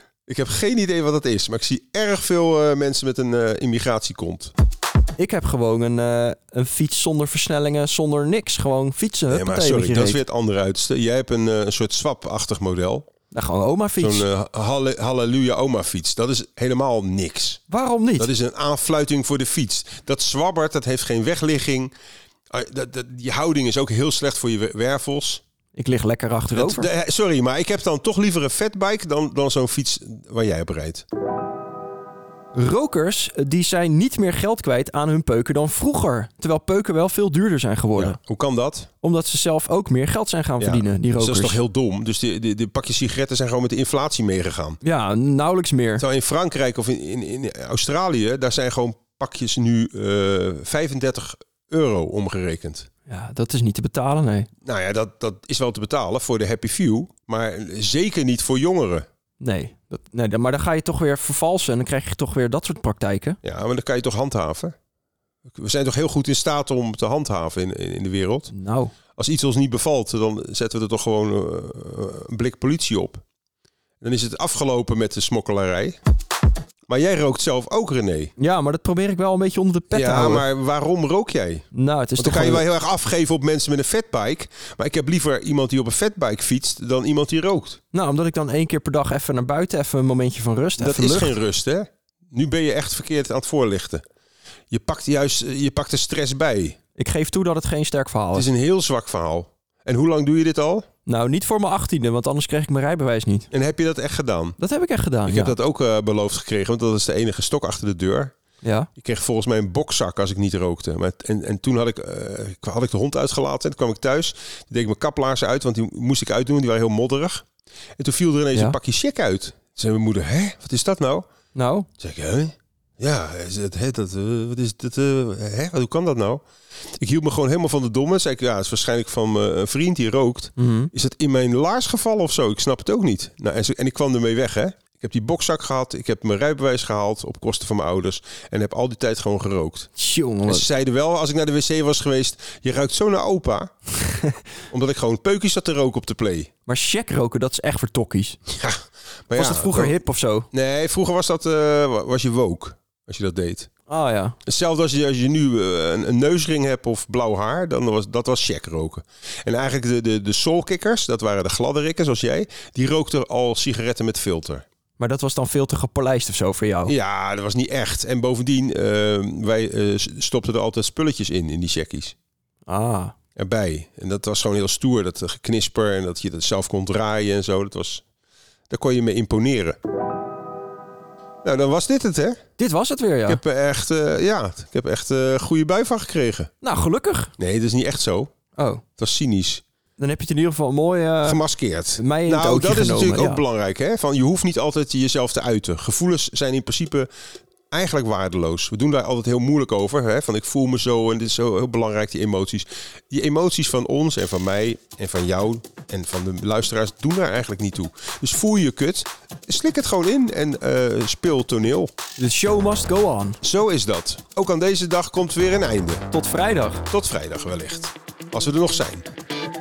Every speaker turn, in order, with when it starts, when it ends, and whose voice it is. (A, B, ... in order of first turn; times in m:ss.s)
0:00.3-0:04.5 A
0:05.2-0:10.2 B
0:09.3-0:13.1 A
0:13.3-0:14.2 B
0:14.0-0:17.6 A
0:17.7-0:18.3 B
0:18.2-0:21.9 A
0:22.5-0:25.4 A
0:25.7-0:26.9 B
0:26.5-0:31.0 A
0:32.5-0:38.2 B
0:38.0-0:38.9 A
0:39.0-0:41.6 B
0:40.6-0:44.8 A
0:44.8-0:46.0 B
0:46.0-0:52.9 A
0:53.1-0:54.5 B
0:54.6-0:59.0 A
0:59.4-1:03.4 B
1:03.4-1:04.7 A
1:05.6-1:08.5 A
1:08.5-1:08.9 B
1:09.2-1:13.2 A
1:14.0-1:16.0 A
1:16.9-1:18.3 A
1:18.4-1:20.5 B
1:19.9-1:21.6 A
1:21.7-1:22.6 B
1:22.2-1:27.8 A
1:27.9-1:31.4 B
1:30.8-1:34.0 A
1:34.7-1:36.8 A
1:37.0-1:38.5 B
1:38.3-1:40.8 A
1:41.0-1:43.5 B
1:43.5-1:44.6 A
1:44.6-1:45.6 B
1:45.2-1:48.3 A
1:48.6-1:48.9 B
1:49.0-1:57.4 A
1:58.0-2:01.2 A
2:01.5-2:01.9 B
2:02.0-2:06.4 A
2:07.0-2:19.9 A
2:10.6-2:10.9 B
2:20.0-2:20.6 B
2:20.4-2:23.7 A
2:24.7-2:26.5 A
2:26.6-2:28.4 B
2:28.5-2:30.0 A
2:29.3-2:30.5 B
2:30.5-2:33.7 A
2:33.9-2:34.4 B
2:34.4-2:44.6 A
2:45.0-2:46.9 B
2:46.9-2:52.1 A
2:52.6-2:53.1 B
2:53.4-2:58.0 A
2:58.7-2:59.8 A
3:01.4-3:02.4 A
3:02.6-3:03.4 B
3:03.3-3:06.5 A
3:06.6-3:07.3 B
3:07.4-3:08.3 A
3:08.6-3:08.8 B
3:09.0-3:09.6 A
3:10.0-3:11.4 B
3:11.2-3:17.1 A
3:12.0-3:13.4 B
3:17.7-3:31.9 A
3:32.2-3:33.4 B
3:33.4-3:36.0 A
3:36.1-3:36.8 B
3:36.9-3:39.1 A